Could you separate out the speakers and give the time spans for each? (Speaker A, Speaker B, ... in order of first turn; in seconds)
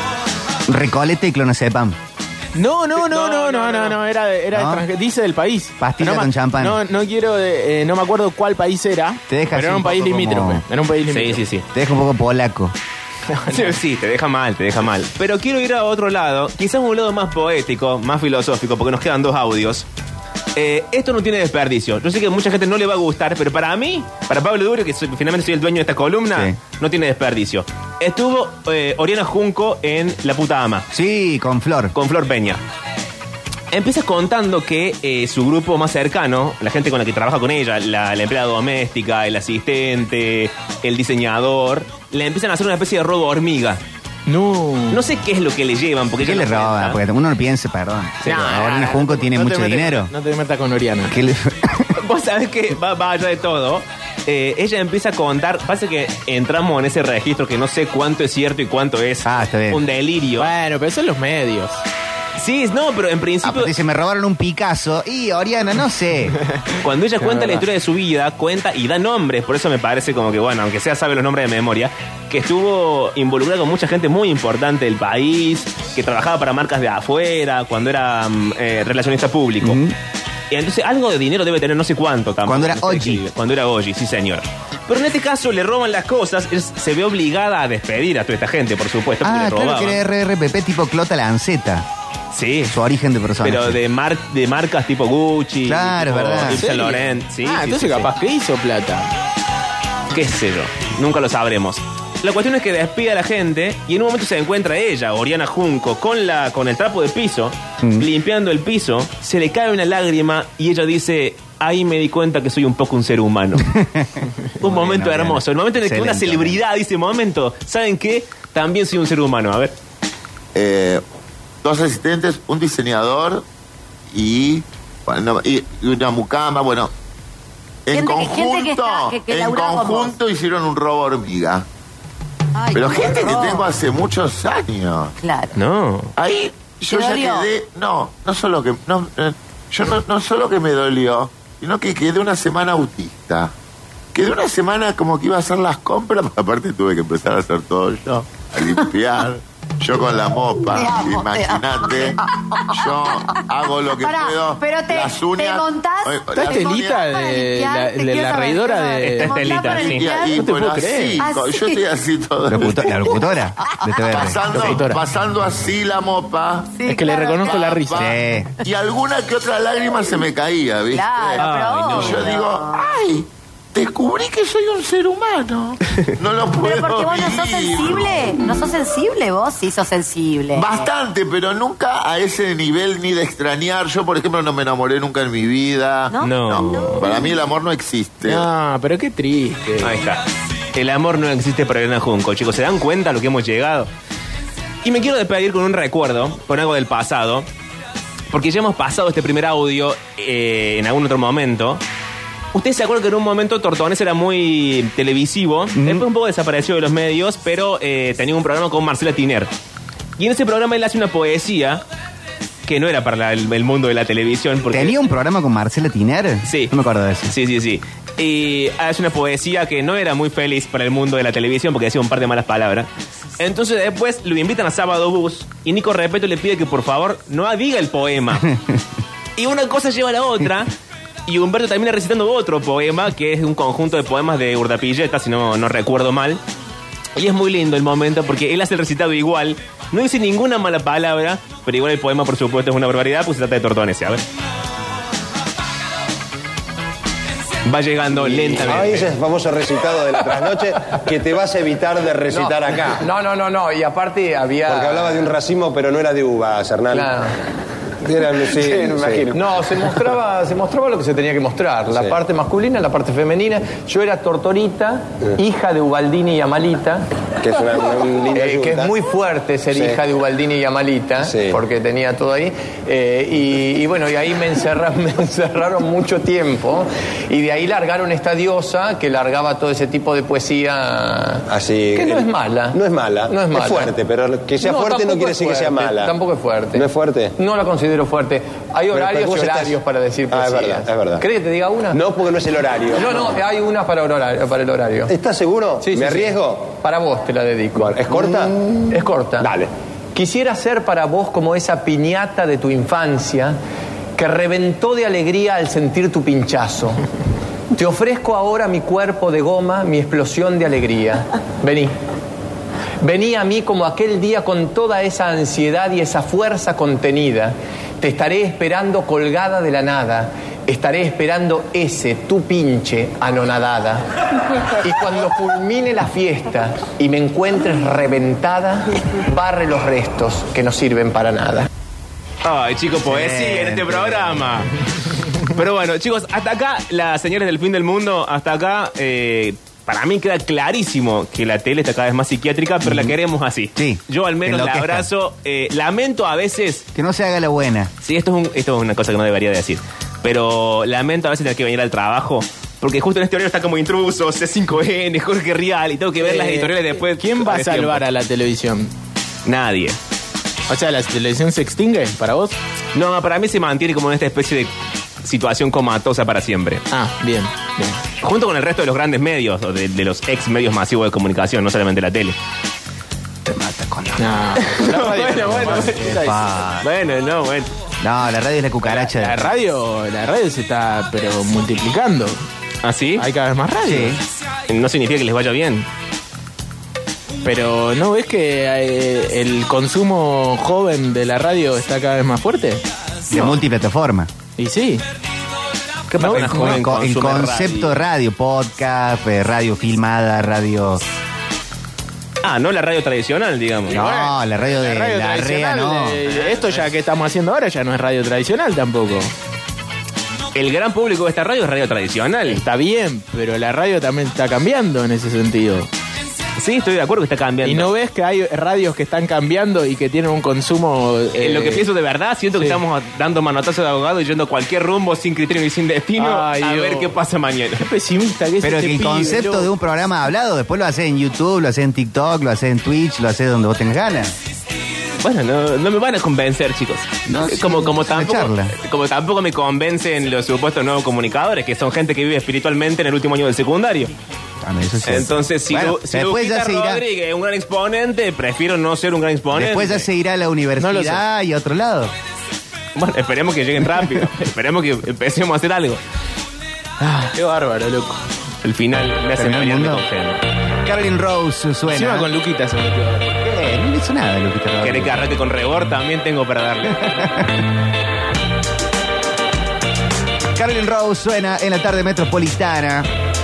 Speaker A: 0.7-2.0, 4.5-4.8, 5.8-6.8, 9.3-10.6, 11.7-12.7, 30.9-31.9, 46.2-50.1, 51.1-51.9, 59.2-59.8, 63.4-66.3, 79.6-79.9, 82.5-83.2, 89.2-91.8, 92.7-93.8, 95.6-96.6, 113.7-116.6, 162.5-164.4, 167.9-168.5, 205.8-206.0, 214.7-217.3, 228.5-228.8, 333.1-334.5, 342.8-343.1, 343.8-345.1, 346.9-347.9, 373.4-374.4, 375.3-376.9, 378.0-379.5, 383.8-384.2, 393.3-394.3, 396.3-401.0, 403.9-406.2, 428.6-434.3, 437.2-438.7, 444.6-447.0, 449.5-452.1, 459.4-460.0, 460.8-462.3, 463.4-465.2, 466.9-467.6, 470.6-473.1
Speaker B: 2.5-11.4, 13.3-13.8, 44.3-45.0, 48.2-51.1, 60.4-61.8, 67.2-67.6, 96.5-99.1, 156.4-159.6, 160.3-161.2, 164.5-165.0, 166.8-168.1, 188.2-189.9, 356.2-358.9, 360.7-362.6, 366.9-368.0, 374.2-376.4, 378.8-382.4, 383.2-384.2, 387.4-392.8, 394.6-395.0, 396.2-396.8, 403.9-409.3, 412.5-415.9, 417.6-421.8, 426.2-427.1, 427.8-429.7, 450.8-451.2, 457.0-458.2, 461.9-463.3
Speaker C: 3.0-4.0, 11.1-11.6, 13.5-19.9, 20.6-30.9, 31.9-32.6, 33.7-43.8, 44.9-47.0, 52.0-60.5, 62.4-63.7, 66.8-79.8, 80.5-90.0, 92.3-92.7, 93.4-98.1, 100.1-113.7, 114.6-119.7, 135.5-136.1, 159.0-160.1, 171.4-172.3, 186.2-187.2, 189.8-190.2, 190.7-193.9, 194.8-197.5, 198.3-201.8, 202.5-209.5, 210.2-211.8, 212.6-215.0, 216.4-216.7, 217.3-228.5, 229.3-230.7, 231.3-236.4, 237.2-244.2, 247.7-249.1, 332.4-334.7, 335.5-346.8, 348.0-358.0, 359.4-360.0, 362.9-364.7, 365.2-366.8, 368.2-372.4, 374.7-376.1, 376.8-377.7, 382.8-383.2, 384.7-385.9, 396.1-398.0, 402.4-404.0, 406.2-406.9, 410.5-412.6, 416.6-417.9, 421.4-427.9, 435.2-444.1, 445.0-450.1, 452.9-456.0, 458.6-460.4, 464.8-467.0
Speaker D: 120.5-121.0, 121.6-123.4, 124.1-126.9, 127.8-131.6, 132.7-135.1, 136.2-143.5, 144.1-152.2, 152.7-157.0, 159.7-163.1, 164.0-166.7, 167.4-178.3, 180.5-188.4
Speaker E: 127.9-130.2, 132.6-133.7, 135.2-135.6, 136.9-137.5, 149.9-160.5, 161.2-161.8, 163.6-164.3, 166.7-167.7, 170.9-172.8, 176.6-180.9, 186.1-187.4
Speaker F: 248.2-253.0, 254.7-257.1, 258.1-259.4, 267.4-268.9, 269.7-270.0, 271.3-271.6, 281.5-286.1, 286.7-287.3, 288.9-289.8, 290.3-291.2, 291.9-293.3, 295.1-296.7, 297.8-298.5, 299.4-299.7
Speaker G: 252.3-255.2, 256.9-257.3, 258.6-267.1, 268.3-282.8, 283.3-283.9, 284.6-292.0, 292.9-295.1, 295.8-299.5, 300.1-303.6, 304.2-307.0, 307.7-311.9, 313.0-324.0, 324.6-331.7